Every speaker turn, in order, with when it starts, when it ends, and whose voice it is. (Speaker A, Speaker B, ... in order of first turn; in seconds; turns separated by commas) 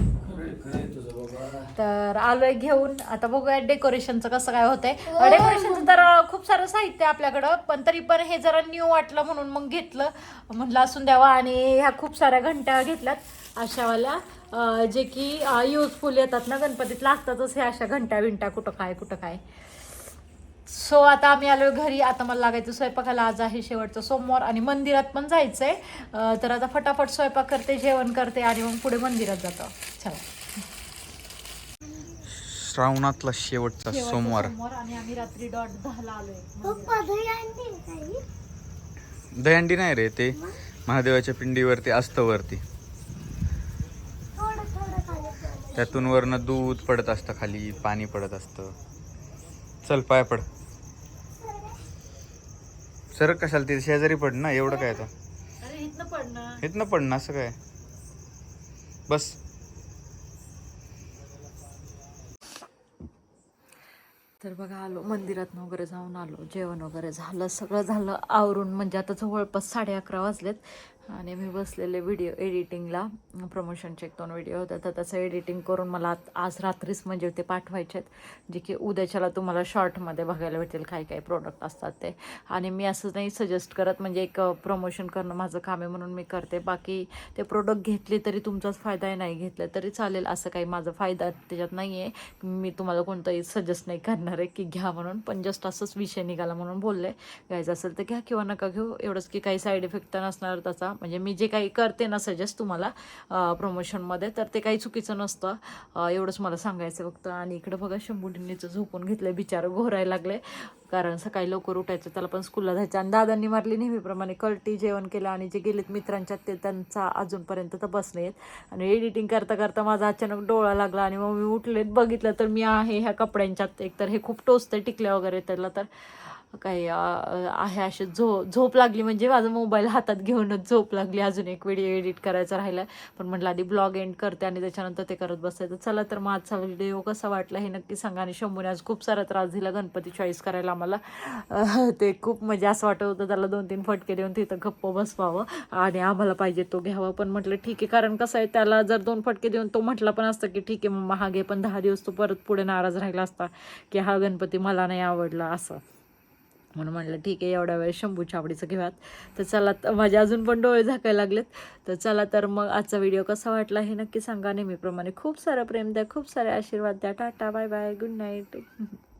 Speaker A: 0.2-1.7, Speaker B: 1.8-19.4, Speaker C: 5.1-6.0, Speaker B: 20.7-30.2, Speaker A: 32.3-34.5, Speaker B: 33.9-37.0, Speaker C: 36.6-38.2, Speaker A: 39.4-42.6, Speaker C: 44.4-45.9, Speaker A: 45.7-48.7, Speaker A: 49.8-50.4, Speaker C: 51.4-51.8, Speaker A: 53.1-55.1, Speaker B: 54.7-55.0, Speaker B: 55.6-56.6, Speaker A: 56.6-57.5, Speaker A: 59.1-59.4, Speaker B: 64.4-155.8, Speaker B: 156.7-169.0